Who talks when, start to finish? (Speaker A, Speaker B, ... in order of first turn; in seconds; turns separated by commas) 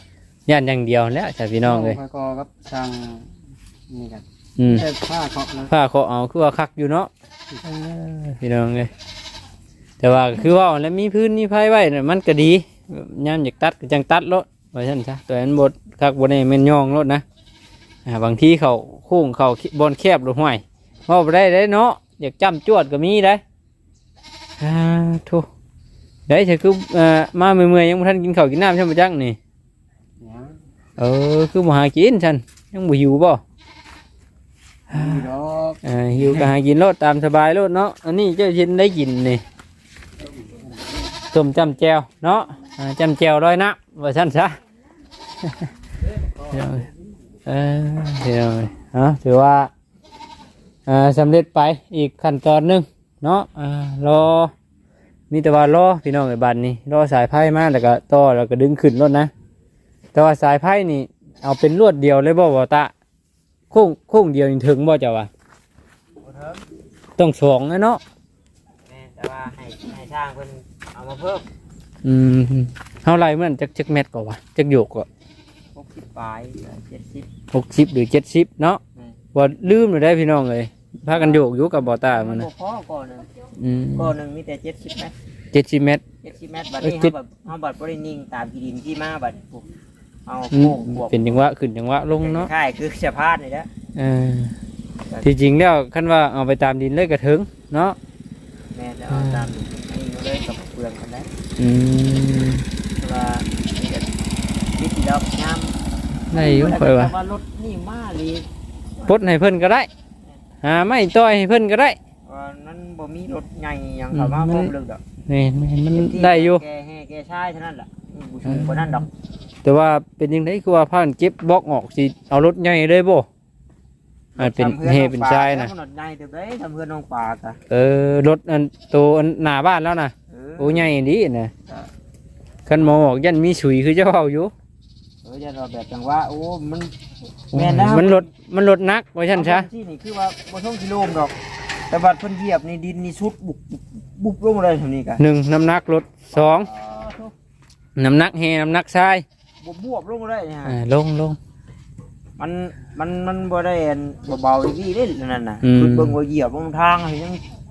Speaker A: 0.5-2.0, Speaker B: 1.6-3.4, Speaker B: 3.9-5.7, Speaker A: 4.6-4.9, Speaker A: 5.7-7.1, Speaker A: 7.6-8.9, Speaker A: 10.0-17.2, Speaker A: 18.1-23.4, Speaker A: 24.6-25.5, Speaker A: 26.3-29.4, Speaker B: 30.2-30.6, Speaker A: 31.0-33.4, Speaker A: 34.9-35.3, Speaker B: 34.9-36.5, Speaker A: 35.8-39.4, Speaker B: 40.5-40.7, Speaker A: 41.3-44.6, Speaker A: 45.4-45.7, Speaker A: 46.5-46.9, Speaker A: 47.5-49.7, Speaker A: 50.9-54.5, Speaker A: 55.3-59.3, Speaker A: 60.1-62.9, Speaker A: 63.7-65.3, Speaker C: 66.2-66.6, Speaker A: 67.2-68.0, Speaker C: 68.9-71.5, Speaker A: 72.0-75.1, Speaker C: 75.8-77.3, Speaker A: 77.5-78.8, Speaker A: 79.3-82.5, Speaker C: 81.1-83.3, Speaker A: 83.6-84.1, Speaker C: 84.0-85.1, Speaker A: 85.5-86.0, Speaker C: 86.2-89.7, Speaker A: 86.8-87.1, Speaker C: 90.3-91.4, Speaker A: 90.5-92.5, Speaker C: 92.2-93.7, Speaker A: 94.0-94.5, Speaker A: 95.2-98.0, Speaker C: 98.7-101.3, Speaker A: 99.1-99.5, Speaker A: 101.6-102.7, Speaker C: 103.0-105.8, Speaker A: 106.3-107.1, Speaker C: 106.3-109.2, Speaker A: 109.1-109.9, Speaker A: 110.6-112.0, Speaker C: 112.2-115.0, Speaker A: 114.1-114.7, Speaker A: 115.3-116.6, Speaker C: 115.9-119.1, Speaker A: 118.5-119.1, Speaker A: 119.6-123.3, Speaker C: 124.4-127.6, Speaker A: 124.4-125.7, Speaker A: 127.7-131.5, Speaker C: 130.3-130.9, Speaker A: 132.7-134.5, Speaker C: 135.2-136.9, Speaker C: 137.5-138.3, Speaker A: 137.5-139.7, Speaker C: 139.3-141.3, Speaker C: 141.9-145.2, Speaker A: 145.2-146.7, Speaker C: 146.3-147.3, Speaker A: 148.0-149.2, Speaker C: 149.6-150.8, Speaker A: 150.7-151.4, Speaker C: 152.4-157.4, Speaker A: 155.6-156.2